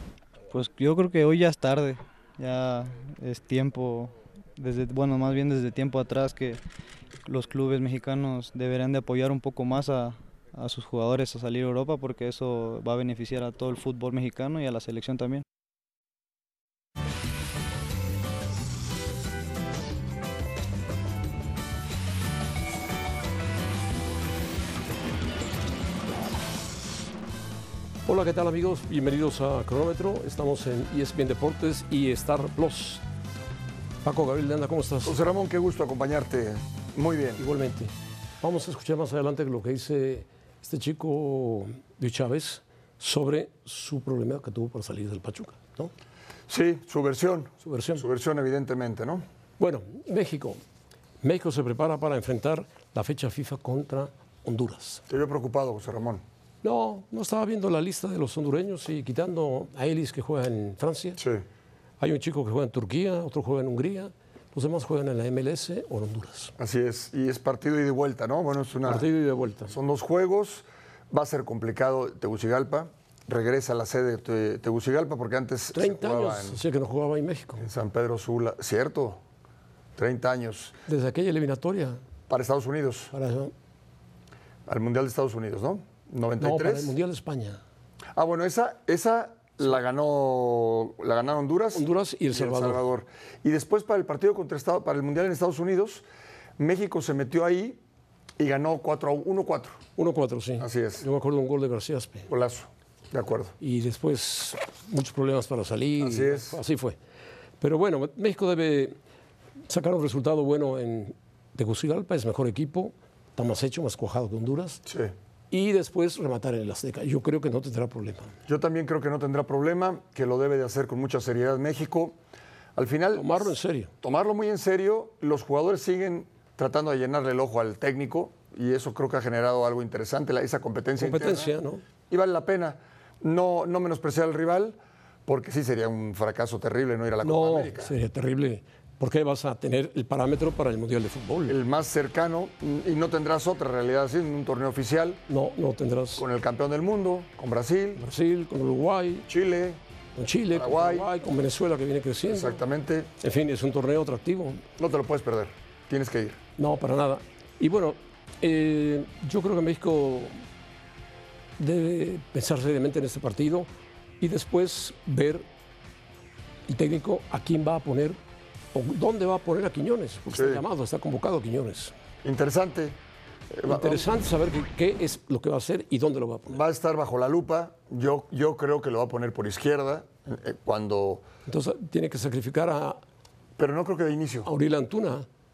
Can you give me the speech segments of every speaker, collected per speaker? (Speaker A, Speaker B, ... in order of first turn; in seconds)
Speaker A: 0.5-6.6, 7.2-15.4
Speaker B: 28.1-33.0, 34.0-35.2, 37.4-45.9, 47.6-48.0, 49.6-50.6, 51.2-55.0, 56.6-61.2, 62.0-66.5, 68.8-69.8, 75.7-77.7, 80.9-82.0, 83.1-83.5, 86.4-87.6, 91.8-92.8, 100.0-102.3, 103.6-107.0, 107.6-109.0, 109.7-114.8, 115.5-118.3, 123.2-123.9, 131.0-131.8, 137.2-141.6, 145.3-146.2, 148.0-149.3, 150.2-152.6, 153.2-154.6, 156.6-160.4, 161.6-163.7, 164.2-165.5, 166.7-168.2, 168.7-171.9, 173.7-176.6, 181.5-183.0, 184.5-185.3
Speaker C: 35.0-37.4, 46.5-49.2, 55.1-56.2, 61.2-61.4, 66.6-69.1, 69.7-76.6, 77.6-79.2, 80.0-80.8, 82.3-83.1, 84.7-87.0, 88.2-96.0, 96.6-97.8, 98.4-99.8, 100.6-101.1, 102.3-103.5, 106.0-106.6, 114.9-115.1, 118.5-122.2, 122.8-131.5, 132.1-137.9, 141.5-145.2, 146.2-148.0, 149.3-149.8, 150.5-151.1, 152.3-153.1, 154.8-156.4, 170.3-170.6, 172.2-173.0, 173.5-174.1, 176.5-181.3, 183.6-184.5